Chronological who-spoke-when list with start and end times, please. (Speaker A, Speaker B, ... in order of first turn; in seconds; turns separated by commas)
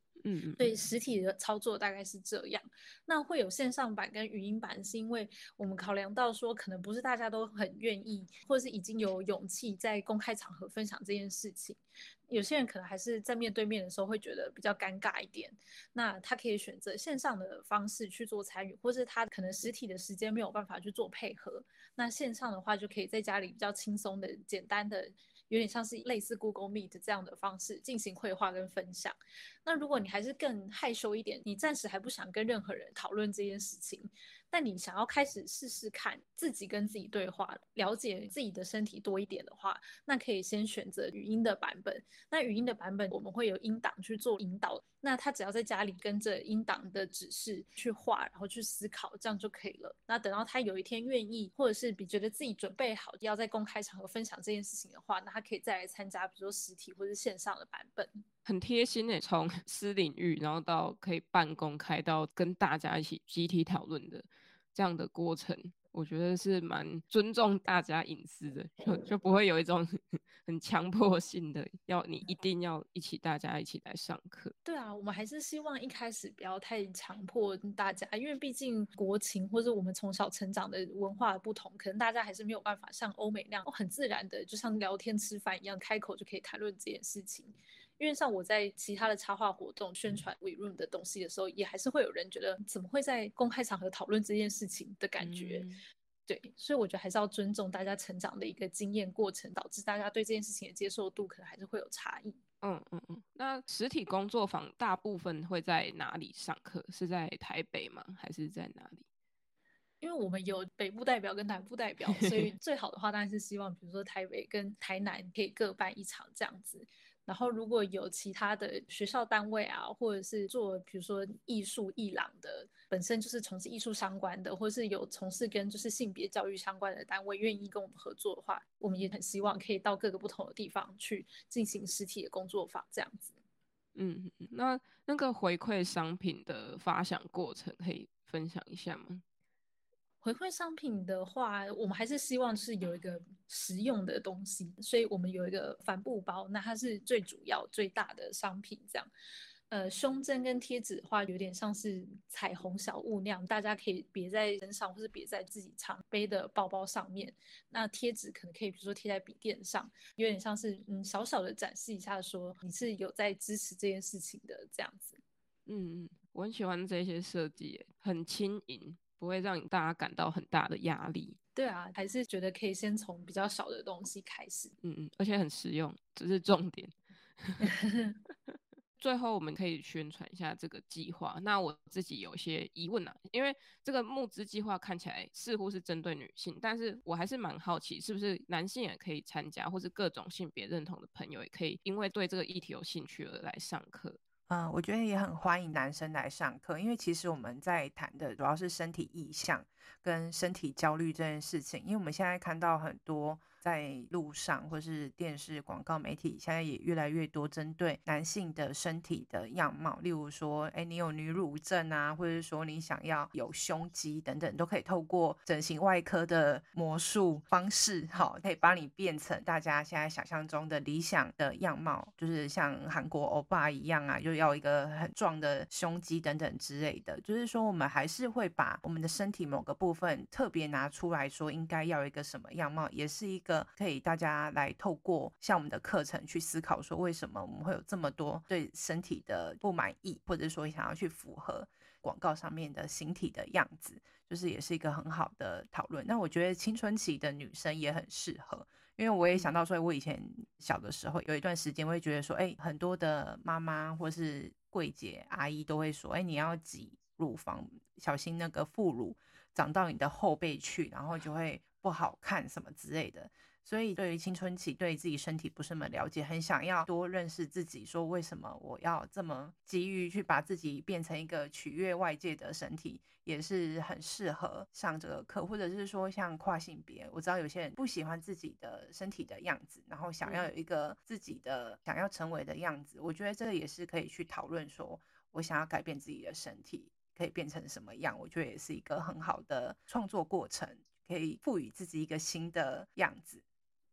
Speaker A: 0.2-0.6, Speaker B: 0.6-58.2, Speaker A: 58.5-74.5, Speaker B: 74.6-95.7, Speaker A: 95.2-95.8, Speaker B: 96.3-102.4, Speaker A: 102.6-109.1, Speaker B: 110.0-133.3, Speaker A: 133.9-139.2, Speaker B: 140.2-149.1, Speaker B: 149.7-165.2, Speaker A: 165.7-171.4, Speaker B: 171.6-174.7, Speaker A: 174.8-177.7, Speaker B: 177.6-178.1, Speaker A: 178.5-194.2, Speaker C: 194.5-293.4, Speaker A: 280.2-280.5